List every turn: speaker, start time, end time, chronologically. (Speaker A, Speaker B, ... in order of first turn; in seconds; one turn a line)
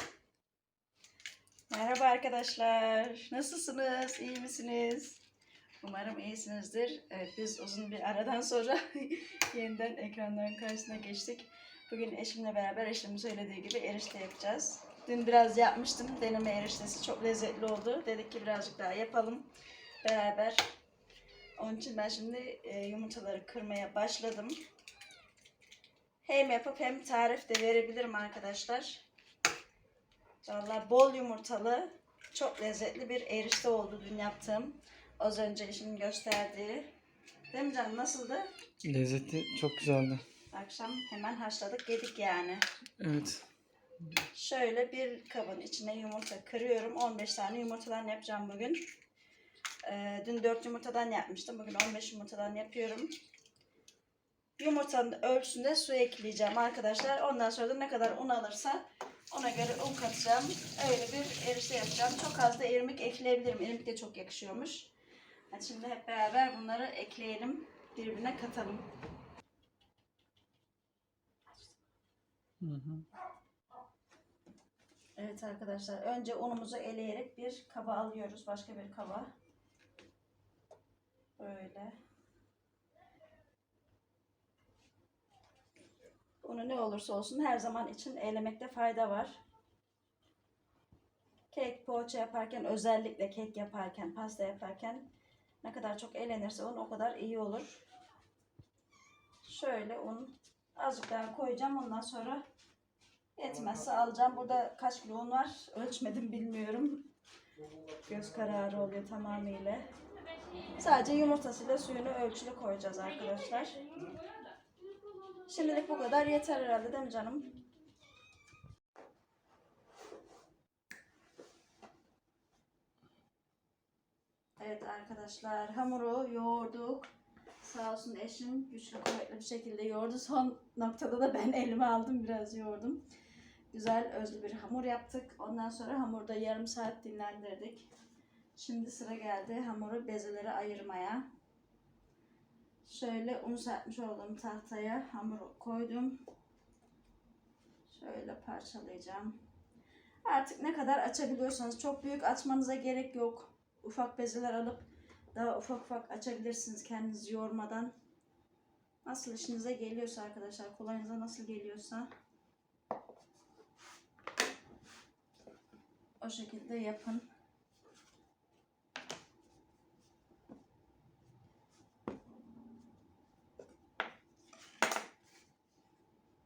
Speaker A: 1.7-5.2
Speaker A: 5.8-19.5
Speaker A: 20.0-20.7
Speaker A: 21.6-24.6
Speaker A: 26.2-29.1
Speaker A: 30.4-36.9
Speaker A: 37.5-38.5
Speaker B: 38.8-40.2
Speaker A: 40.5-42.6
Speaker B: 43.0-43.4
Speaker A: 44.3-48.9
Speaker A: 49.8-53.1
Speaker A: 54.6-64.9
Speaker A: 65.5-68.8
Speaker B: 72.6-73.0
Speaker A: 75.2-79.3
Speaker A: 81.4-82.0
Speaker A: 86.4-89.4
Speaker A: 91.5-95.1
Speaker A: 95.6-97.8
Speaker A: 99.4-102.4
Speaker A: 103.3-107.1
Speaker A: 108.0-109.9
Speaker A: 110.8-113.9
Speaker A: 115.5-117.5
Speaker A: 124.6-127.1
Speaker A: 127.6-133.0
Speaker A: 133.7-137.9
Speaker A: 138.6-141.3
Speaker A: 142.8-146.2
Speaker A: 147.9-149.4
Speaker A: 150.2-157.9
Speaker A: 159.0-162.1
Speaker A: 166.2-167.2